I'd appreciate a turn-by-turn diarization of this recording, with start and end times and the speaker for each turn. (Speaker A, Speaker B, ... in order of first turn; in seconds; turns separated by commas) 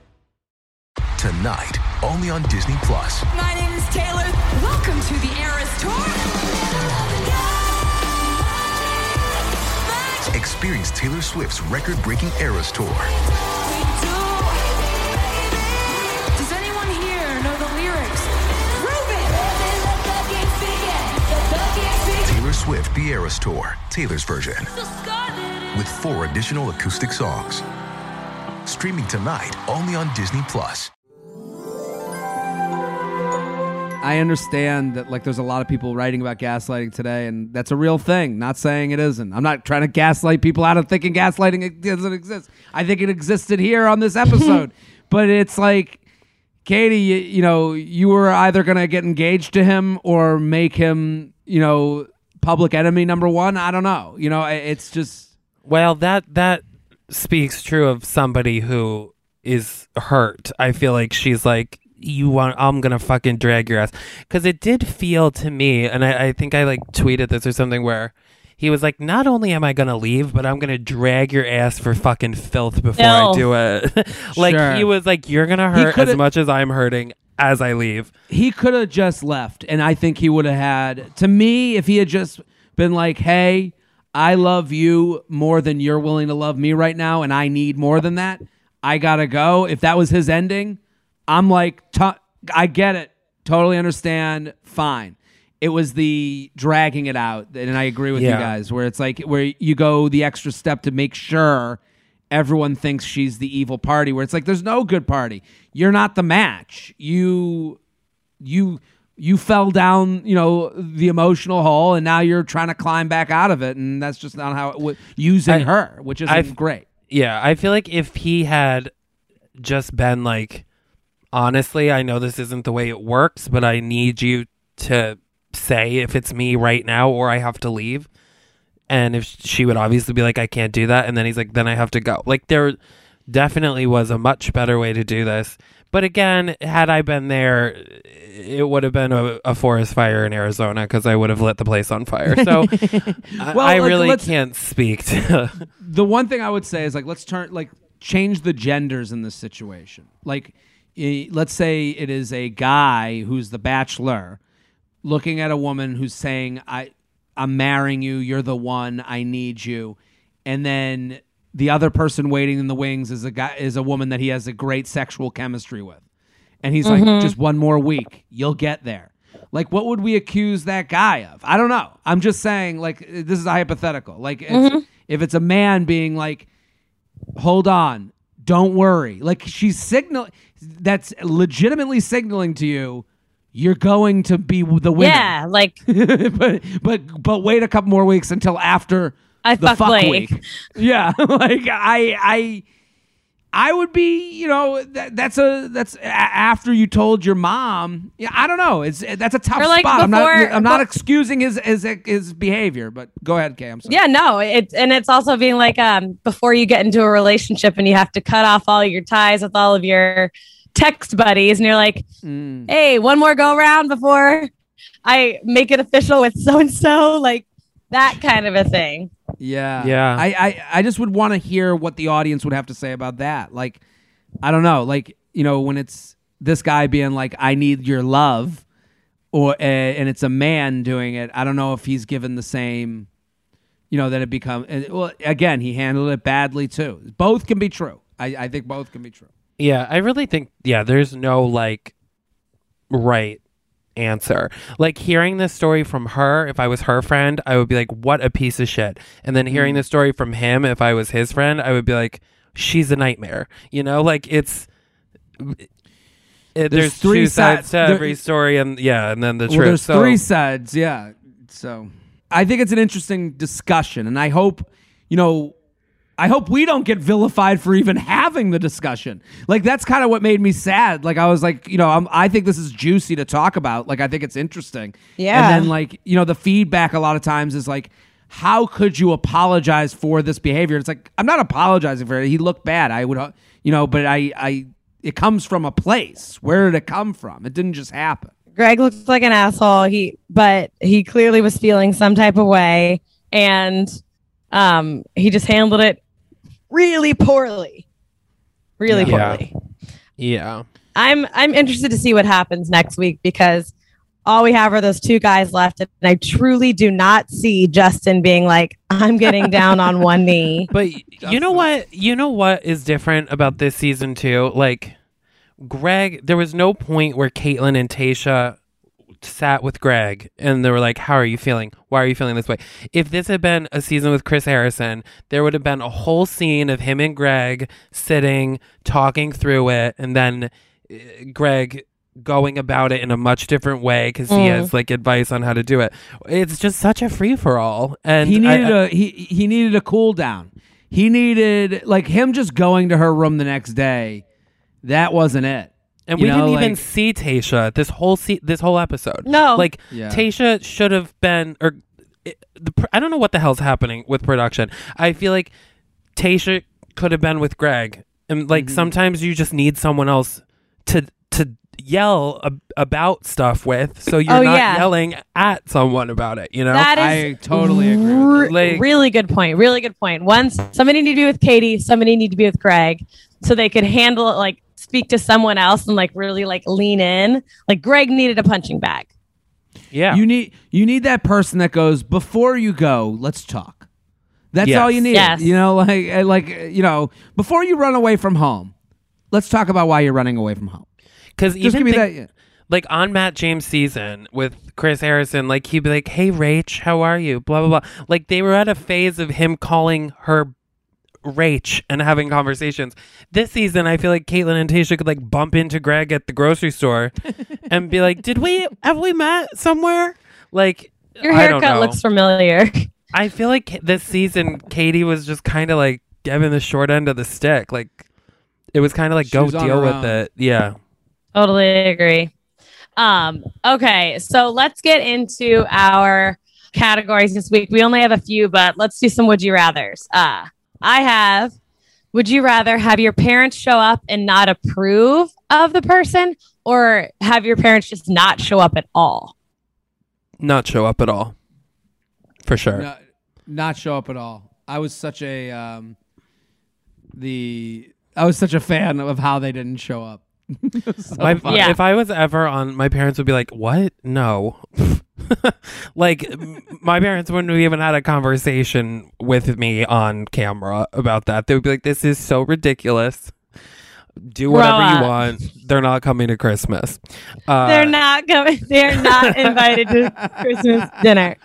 Speaker A: 1.2-3.2, Speaker B: 3.3-10.3, Speaker A: 10.3-13.1, Speaker B: 13.6-22.5, Speaker A: 22.2-24.7, Speaker B: 24.7-25.8, Speaker A: 25.7-27.6, Speaker A: 28.6-30.9, Speaker C: 34.0-46.0, Speaker C: 46.6-55.3, Speaker D: 55.6-78.1, Speaker E: 73.0-73.4, Speaker C: 74.3-74.9, Speaker C: 75.7-76.2, Speaker C: 78.3-101.8, Speaker D: 98.1-98.5, Speaker C: 102.3-107.8, Speaker C: 108.4-116.8, Speaker D: 116.2-116.5, Speaker D: 117.1-118.9, Speaker D: 119.6-120.6, Speaker D: 121.3-128.1, Speaker D: 128.9-132.8, Speaker D: 133.3-145.7, Speaker C: 142.3-144.3, Speaker C: 145.8-154.4, Speaker C: 155.0-166.0, Speaker C: 166.6-176.5, Speaker E: 166.8-167.3, Speaker E: 174.5-174.8, Speaker C: 177.3-185.3, Speaker E: 185.0-185.8, Speaker C: 185.9-192.6, Speaker E: 189.4-190.4, Speaker C: 193.5-204.0, Speaker E: 199.6-200.8, Speaker E: 203.8-212.0, Speaker C: 212.2-212.7, Speaker E: 212.7-214.5, Speaker E: 215.1-219.1, Speaker C: 219.4-223.8, Speaker D: 219.8-220.2, Speaker C: 224.4-228.6, Speaker C: 229.3-233.1, Speaker C: 233.9-239.3, Speaker D: 239.6-241.9, Speaker D: 242.9-243.4, Speaker D: 243.9-254.7, Speaker C: 249.5-249.8, Speaker D: 256.5-260.2, Speaker C: 256.7-258.2, Speaker C: 259.5-265.5, Speaker C: 266.2-288.3, Speaker E: 275.2-275.7, Speaker E: 288.6-294.0, Speaker E: 294.5-296.0, Speaker E: 296.7-297.8, Speaker E: 298.8-299.5, Speaker C: 298.9-299.4, Speaker D: 299.0-299.4, Speaker D: 300.2-300.6, Speaker E: 300.9-303.7, Speaker E: 304.2-310.7, Speaker D: 310.7-314.9, Speaker C: 311.2-311.7, Speaker D: 315.6-318.6, Speaker D: 319.2-338.7, Speaker E: 334.3-334.7, Speaker C: 338.2-344.2, Speaker C: 344.8-346.8, Speaker D: 346.1-355.5, Speaker E: 349.2-349.7, Speaker C: 349.9-350.2, Speaker D: 356.1-366.9, Speaker C: 358.5-358.9, Speaker E: 364.2-364.9, Speaker E: 366.7-379.1, Speaker C: 366.9-368.5, Speaker D: 368.4-368.8, Speaker D: 379.9-380.2, Speaker C: 380.1-383.9, Speaker C: 384.5-388.7, Speaker D: 384.6-385.1, Speaker E: 385.1-385.5, Speaker C: 389.3-390.9, Speaker D: 391.4-392.1, Speaker C: 391.6-392.3, Speaker D: 392.7-400.5, Speaker D: 401.2-407.1, Speaker D: 407.7-412.0, Speaker E: 411.2-412.9, Speaker D: 413.1-418.0, Speaker D: 418.7-420.7, Speaker C: 419.2-420.2, Speaker E: 421.3-422.3, Speaker E: 423.0-431.5, Speaker E: 432.1-439.3, Speaker D: 440.4-441.3, Speaker D: 442.4-442.9, Speaker C: 442.7-445.9, Speaker C: 447.1-451.7, Speaker D: 451.2-463.3, Speaker E: 451.5-451.8, Speaker D: 464.2-467.9, Speaker E: 464.5-465.1, Speaker E: 467.6-471.4, Speaker D: 469.1-469.4, Speaker C: 470.1-471.0